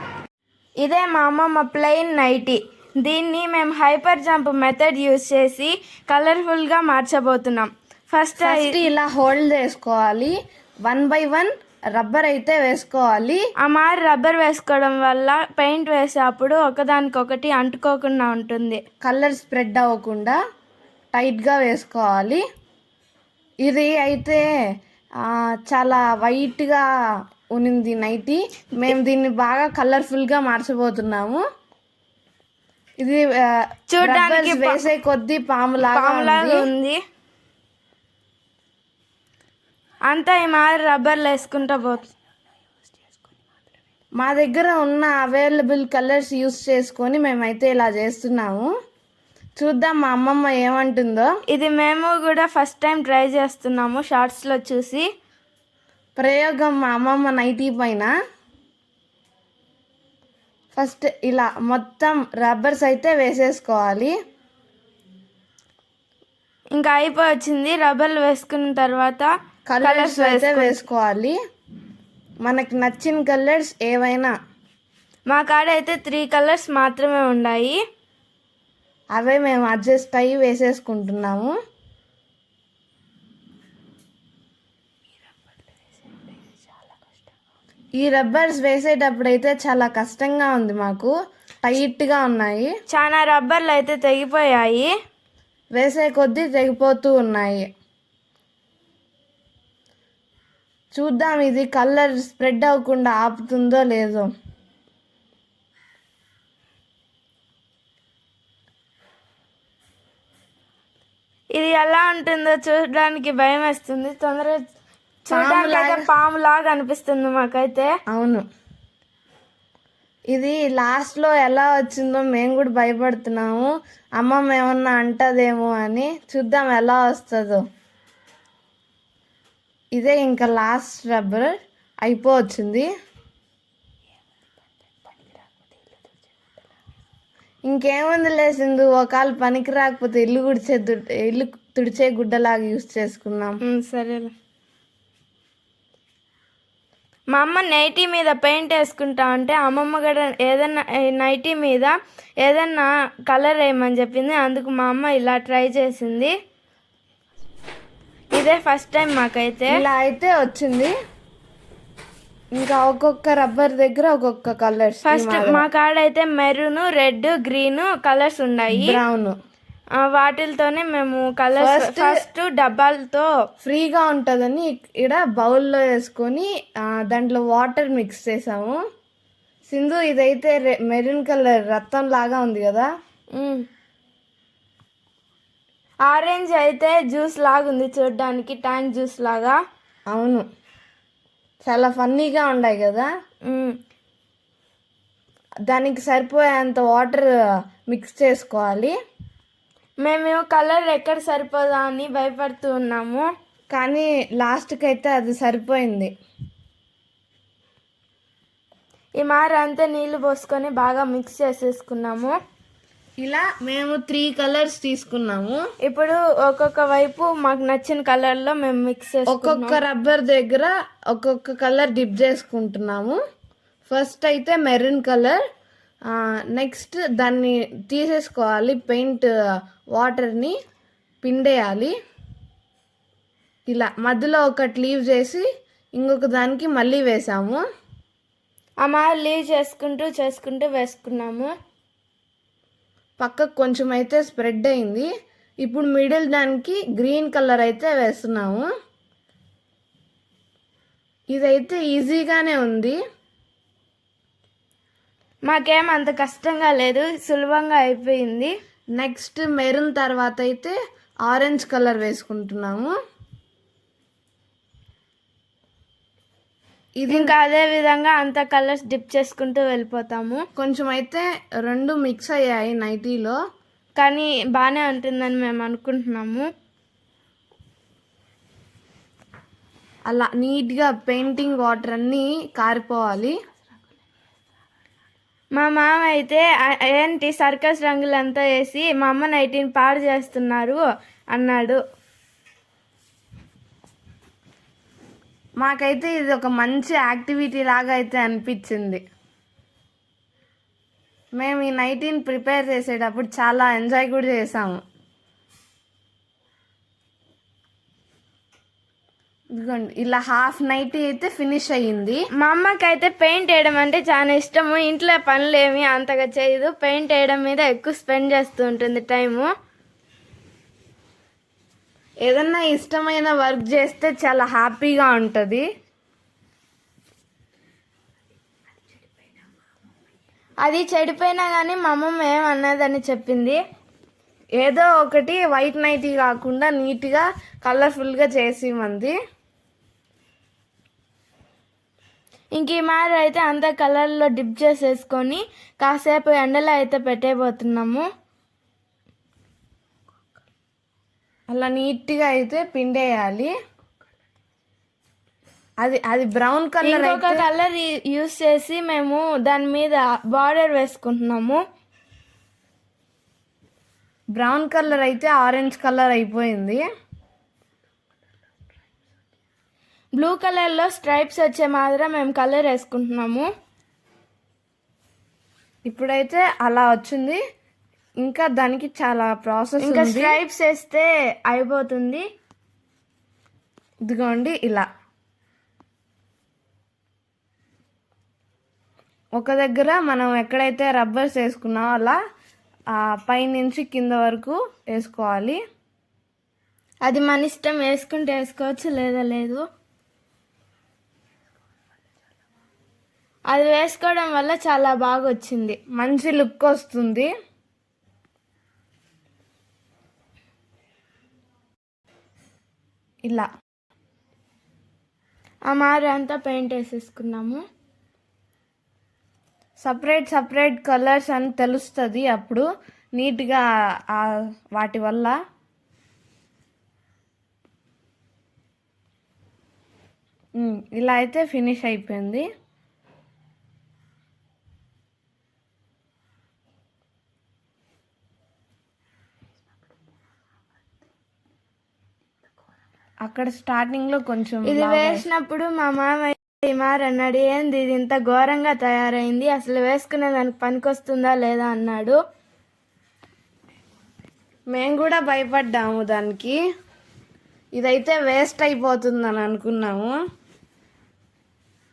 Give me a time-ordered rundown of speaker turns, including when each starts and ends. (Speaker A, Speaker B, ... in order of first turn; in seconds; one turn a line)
Speaker A: 0.8-8.8
Speaker B: 8.4-10.3
Speaker B: 10.8-13.4
Speaker A: 13.6-18.8
Speaker B: 19.0-20.4
Speaker B: 21.1-22.4
Speaker B: 23.6-24.4
Speaker B: 25.7-26.8
Speaker B: 27.5-31.4
Speaker A: 33.9-34.9
Speaker B: 34.0-36.7
Speaker A: 35.8-37.0
Speaker A: 40.1-42.1
Speaker B: 44.2-48.7
Speaker B: 49.6-51.3
Speaker A: 51.5-55.0
Speaker B: 56.2-58.1
Speaker B: 60.8-64.1
Speaker A: 66.8-69.3
Speaker B: 69.7-71.4
Speaker A: 69.8-70.8
Speaker B: 72.4-74.3
Speaker A: 75.3-77.8
Speaker B: 79.2-81.5
Speaker B: 88.0-91.1
Speaker B: 91.6-92.7
Speaker A: 92.9-94.9
Speaker B: 95.8-97.7
Speaker B: 100.9-104.3
Speaker A: 111.5-114.6
Speaker A: 115.3-117.9
Speaker B: 115.3-116.0
Speaker B: 118.1-118.4
Speaker B: 120.3-127.6
Speaker B: 129.9-131.5
Speaker B: 132.0-132.9
Speaker B: 137.7-143.6
Speaker A: 143.7-144.3
Speaker A: 147.3-156.3
Speaker A: 158.3-159.8
Speaker B: 159.7-160.9
Speaker B: 162.6-165.7
Speaker A: 165.1-169.0
Speaker B: 168.7-169.3
Speaker A: 170.0-173.3
Speaker B: 171.6-172.2
Speaker B: 173.6-178.8
Speaker B: 179.7-182.9
Speaker A: 183.4-183.7
Speaker A: 186.1-189.6
Speaker B: 190.1-190.4
Speaker B: 191.6-193.1
Speaker A: 193.5-193.8
Speaker B: 195.7-197.3
Speaker B: 197.9-198.9
Speaker A: 200.0-203.3
Speaker B: 203.7-206.1
Speaker A: 209.2-212.3
Speaker B: 213.2-215.6
Speaker A: 215.8-219.8
Speaker B: 219.3-223.2
Speaker B: 223.9-225.4
Speaker B: 226.5-229.3
Speaker B: 229.9-230.5
Speaker B: 231.2-231.9
Speaker B: 233.7-235.5
Speaker B: 236.0-237.6
Speaker A: 238.8-241.5
Speaker B: 243.2-245.1
Speaker B: 245.6-248.7
Speaker B: 251.3-253.0
Speaker A: 255.5-258.5
Speaker B: 259.0-260.8
Speaker B: 261.3-262.9
Speaker B: 267.0-267.3
Speaker A: 267.1-270.4
Speaker B: 270.6-273.4
Speaker A: 274.0-276.5
Speaker B: 280.1-283.3
Speaker A: 285.6-291.8
Speaker B: 295.6-299.0
Speaker B: 301.4-304.8
Speaker B: 309.6-312.2
Speaker A: 312.4-319.5
Speaker B: 322.2-325.6
Speaker A: 330.6-333.6
Speaker B: 334.6-339.1
Speaker A: 342.6-348.1
Speaker B: 351.5-353.5
Speaker B: 355.8-357.4
Speaker A: 356.8-361.6
Speaker B: 364.4-366.8
Speaker A: 370.2-373.5
Speaker B: 375.9-377.4
Speaker B: 378.2-380.4
Speaker A: 379.8-382.2
Speaker B: 384.1-384.9
Speaker B: 389.4-392.2
Speaker B: 393.0-395.6
Speaker A: 397.1-399.6
Speaker A: 403.5-405.8
Speaker B: 405.9-407.3
Speaker A: 415.7-417.6
Speaker B: 419.8-423.6
Speaker B: 424.1-425.3
Speaker B: 430.6-432.4
Speaker B: 443.2-445.3
Speaker A: 444.7-452.2
Speaker B: 454.7-456.6
Speaker B: 457.8-460.1